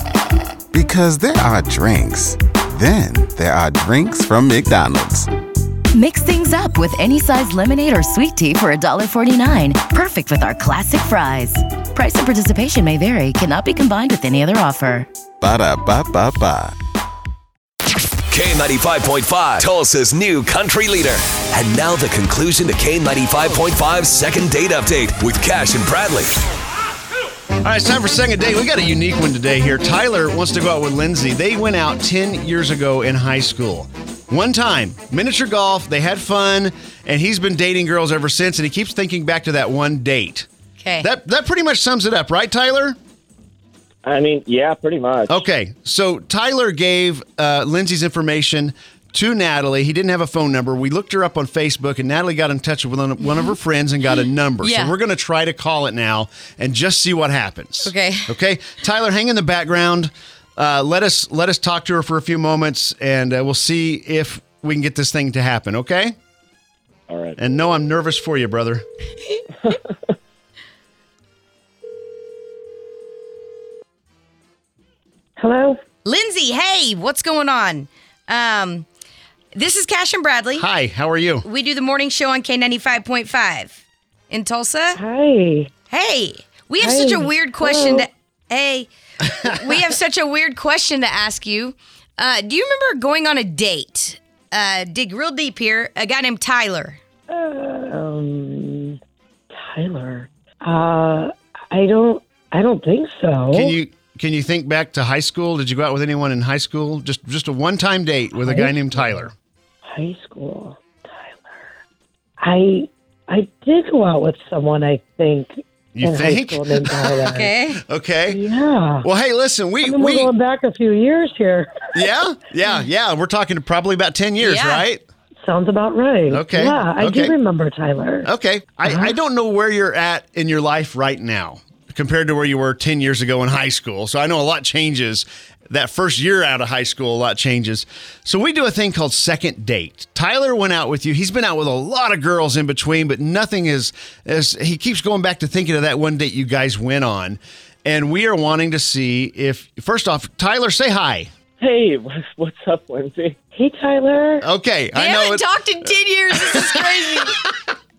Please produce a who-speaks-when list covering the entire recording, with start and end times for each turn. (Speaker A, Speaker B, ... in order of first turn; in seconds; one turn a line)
Speaker A: 0.7-5.3
Speaker B: 5.9-15.1
Speaker A: 15.4-16.7
Speaker C: 18.3-26.3
Speaker D: 27.6-40.5
Speaker E: 40.8-41.1
Speaker D: 41.0-43.0
Speaker F: 44.0-45.5
Speaker D: 45.3-66.2
Speaker E: 53.2-55.0
Speaker E: 57.8-58.4
Speaker F: 67.1-67.4
Speaker D: 67.4-68.8
Speaker G: 75.4-75.8
Speaker E: 76.0-78.9
Speaker E: 79.5-80.7
Speaker D: 80.5-81.5
Speaker E: 81.5-83.8
Speaker E: 84.3-85.0
Speaker G: 85.0-85.7
Speaker E: 85.9-97.0
Speaker G: 86.8-88.1
Speaker G: 97.3-99.0
Speaker G: 99.5-103.8
Speaker D: 103.5-109.3
Speaker G: 108.4-109.3
Speaker G: 109.8-111.6
Speaker G: 112.4-117.5
Speaker D: 115.9-117.0
Speaker E: 117.2-117.8
Speaker D: 117.7-118.4
Speaker G: 118.3-119.1
Speaker D: 119.0-120.3
Speaker G: 119.8-121.7
Speaker D: 122.0-125.0
Speaker E: 124.4-124.9
Speaker G: 125.4-128.3
Speaker D: 126.3-127.3
Speaker D: 128.2-151.3
Speaker G: 128.9-129.1
Speaker F: 151.6-153.4
Speaker G: 153.5-154.4
Speaker D: 154.4-157.5
Speaker E: 154.9-157.3